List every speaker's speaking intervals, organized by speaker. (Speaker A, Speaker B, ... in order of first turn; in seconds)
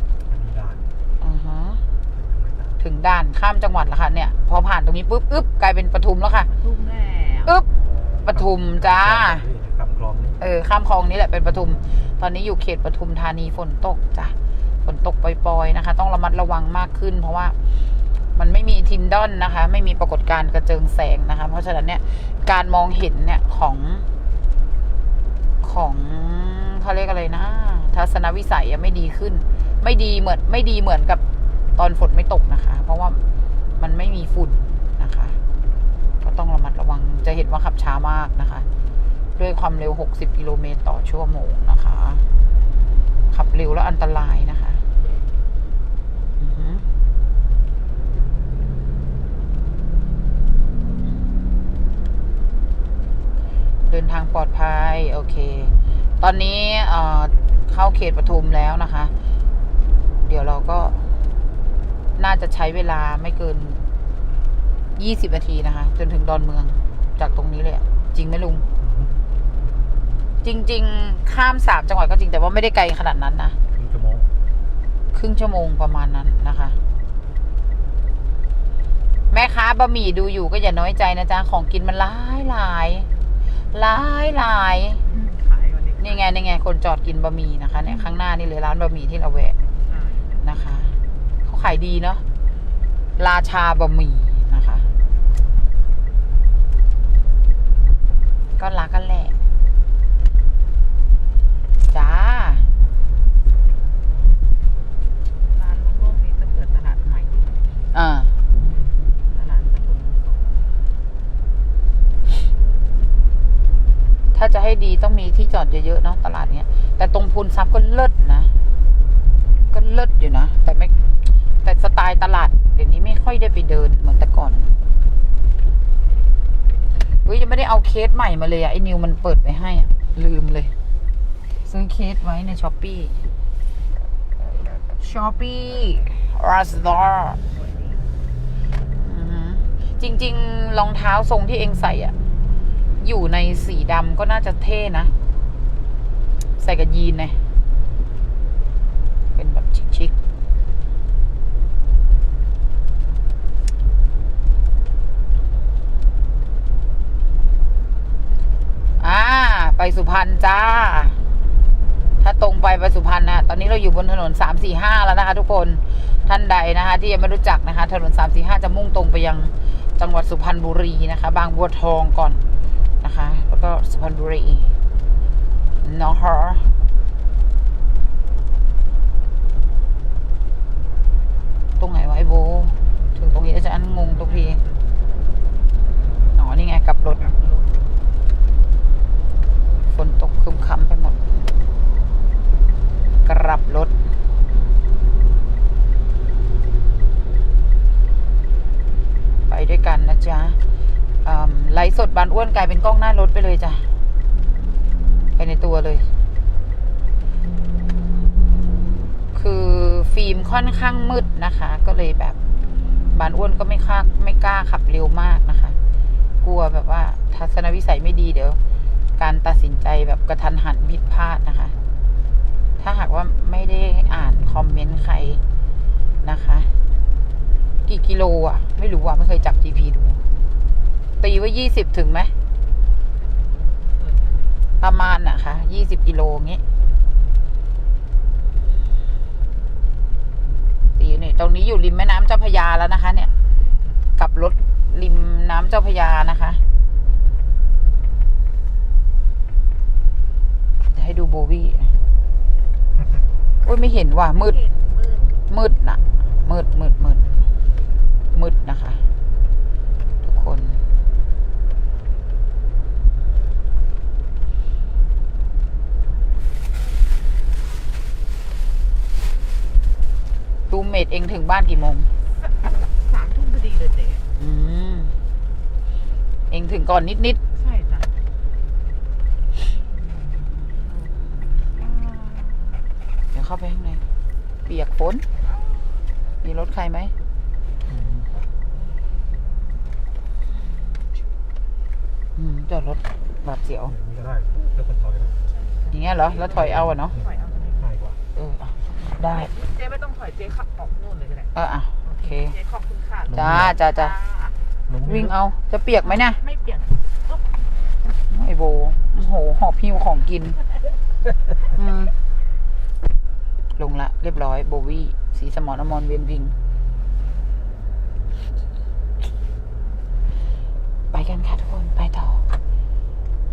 Speaker A: 0.3-0.9, 2.1-2.8, 8.2-10.4, 68.8-69.1, 73.7-74.3, 252.9-253.2, 287.9-288.5, 293.8-295.4, 296.5-298.2, 303.3-303.7, 304.9-305.3
Speaker B: 1.2-1.8, 2.8-6.5, 8.2-9.4, 10.4-17.6, 18.3-24.1, 25.6-31.2, 31.8-33.2, 33.8-35.4, 36.2-38.6, 39.4-42.2, 43.3-44.8, 46.4-46.9, 53.9-59.1, 60.2-61.1, 62.2-63.9, 65.0-68.6, 70.4-73.6, 75.1-76.8, 79.3-83.1, 83.7-85.0, 86.0-89.6, 90.4-92.2, 93.2-94.9, 98.6-99.4, 101.9-102.7, 107.9-108.3, 114.3-118.5, 119.7-120.9, 121.6-124.7, 127.2-130.7, 131.6-133.2, 135.0-137.4, 139.0-142.1, 143.0-145.1, 146.6-147.4, 149.3-150.1, 159.0-161.2, 162.2-172.4, 173.0-174.7, 175.8-176.7, 181.8-184.6, 186.3-187.2, 189.9-191.5, 193.2-193.9, 199.5-200.6, 201.2-203.8, 205.3-206.1, 209.3-212.4, 213.1-215.8, 216.4-218.6, 219.2-221.7, 222.8-225.4, 226.2-226.7, 227.8-230.2, 231.2-232.3, 234.8-236.6, 241.0-243.3, 244.2-246.6, 250.9-251.9, 253.6-254.6, 255.5-257.3, 258.3-259.0, 260.2-260.8, 270.7-272.1, 274.4-275.1, 276.5-277.4, 283.3-284.0, 284.6-285.2, 286.4-287.1, 292.4-293.9, 295.9-297.1, 298.3-299.5, 301.5-302.5, 303.3-304.1, 305.0-306.4, 308.3-310.6, 311.8-312.1, 313.8-316.5, 321.1-322.4
Speaker C: 6.6-7.5, 85.0-86.3, 87.8-88.2, 89.8-90.3, 105.5-107.9, 108.5-110.7, 136.7-138.1, 184.0-185.0, 187.1-187.9, 233.1-234.7, 243.1-243.6, 254.3-255.4, 272.4-274.3, 277.5-278.1, 279.6-282.8, 285.4-286.0, 295.5-297.9, 299.2-304.6, 306.0-307.6